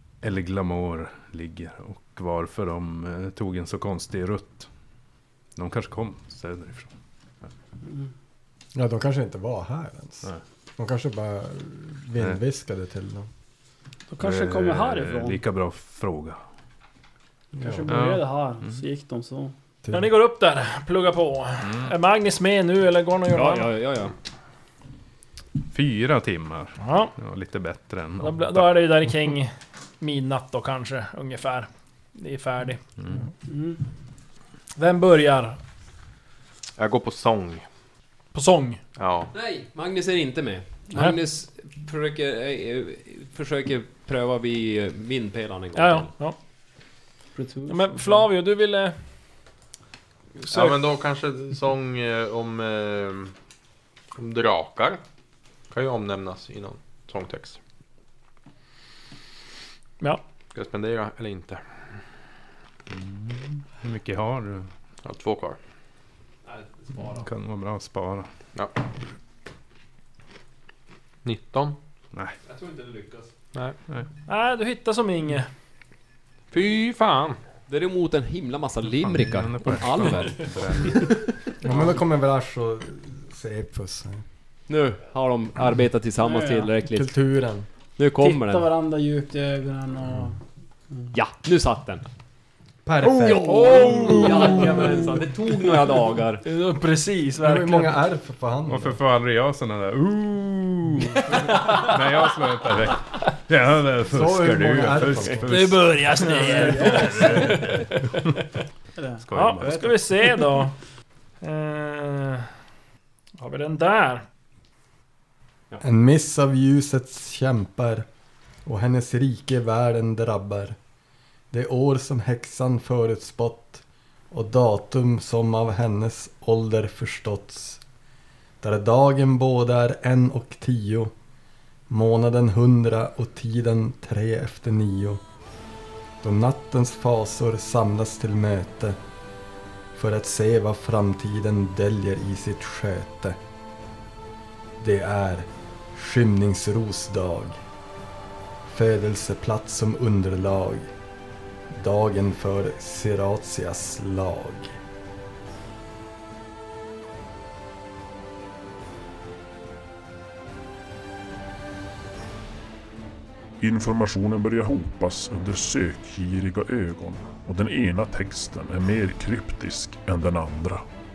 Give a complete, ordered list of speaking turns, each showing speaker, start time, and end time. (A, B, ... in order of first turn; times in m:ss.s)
0:00.2-0:04.7 A
0:05.6-0:06.9 A
0:07.8-0:08.1 B
0:08.7-0:13.3 C
0:14.1-0:15.4 B
0:14.2-0:16.4 A
0:17.5-0:17.9 C
0:17.6-0:19.5 B
0:17.8-0:18.8 A
0:19.8-0:20.1 C
0:19.9-0:23.7 D
0:21.6-0:21.9 A
0:23.3-0:24.1 E
0:25.6-0:28.7 A
0:26.8-0:27.1 D
0:28.2-0:32.8 D
0:33.5-0:33.8 B
0:34.8-0:35.6 D
0:36.8-0:37.6 F
0:38.3-0:38.8 D
0:39.0-0:39.3 F
0:39.3-0:46.1 E
0:40.9-0:41.2 D
0:45.7-0:46.4 D
0:47.4-0:48.2 B
0:47.7-0:49.0 D
0:50.4-0:50.8 D
0:50.5-0:53.3 F
0:54.1-0:55.0 F
0:55.7-0:57.6 F
1:00.5-1:01.6 F
1:02.9-1:04.7 A
1:05.0-1:05.6 F
1:06.4-1:07.3 E
1:07.0-1:08.3 A
1:11.2-1:11.8 F
1:12.4-1:13.3 E
1:14.3-1:15.5 D
1:16.5-1:17.4 F
1:17.7-1:21.4 E
1:19.0-1:21.2 A
1:21.6-1:24.2 C
1:24.7-1:27.1 E
1:26.2-1:26.7 B
1:26.9-1:27.7 C
1:28.0-1:28.7 E
1:28.2-1:30.4 B
1:31.1-1:32.0 E
1:32.8-1:34.9 C
1:33.0-1:34.7 A
1:33.2-1:36.4 E
1:34.4-1:36.0 B
1:36.4-1:38.0 D
1:37.4-1:39.0 C
1:38.7-1:48.4 A
1:41.4-1:41.9 D
1:44.1-1:45.5 C
1:45.5-1:48.3 D
1:46.5-1:47.6 C
1:46.7-1:47.1 B
1:49.0-1:49.2 B
1:49.2-1:50.0 A
1:49.3-1:50.7 D
1:51.4-1:52.5 D
1:53.4-1:54.2 D
1:55.8-1:58.1 C
1:58.6-2:00.8 C
2:01.5-2:07.8 C
2:08.6-2:11.1 C
2:11.9-2:15.2 C
2:16.2-2:19.0 C
2:19.9-2:23.4 C
2:24.8-2:27.6 C
2:28.6-2:30.9 C
2:31.7-2:34.8 C
2:43.6-2:50.8 G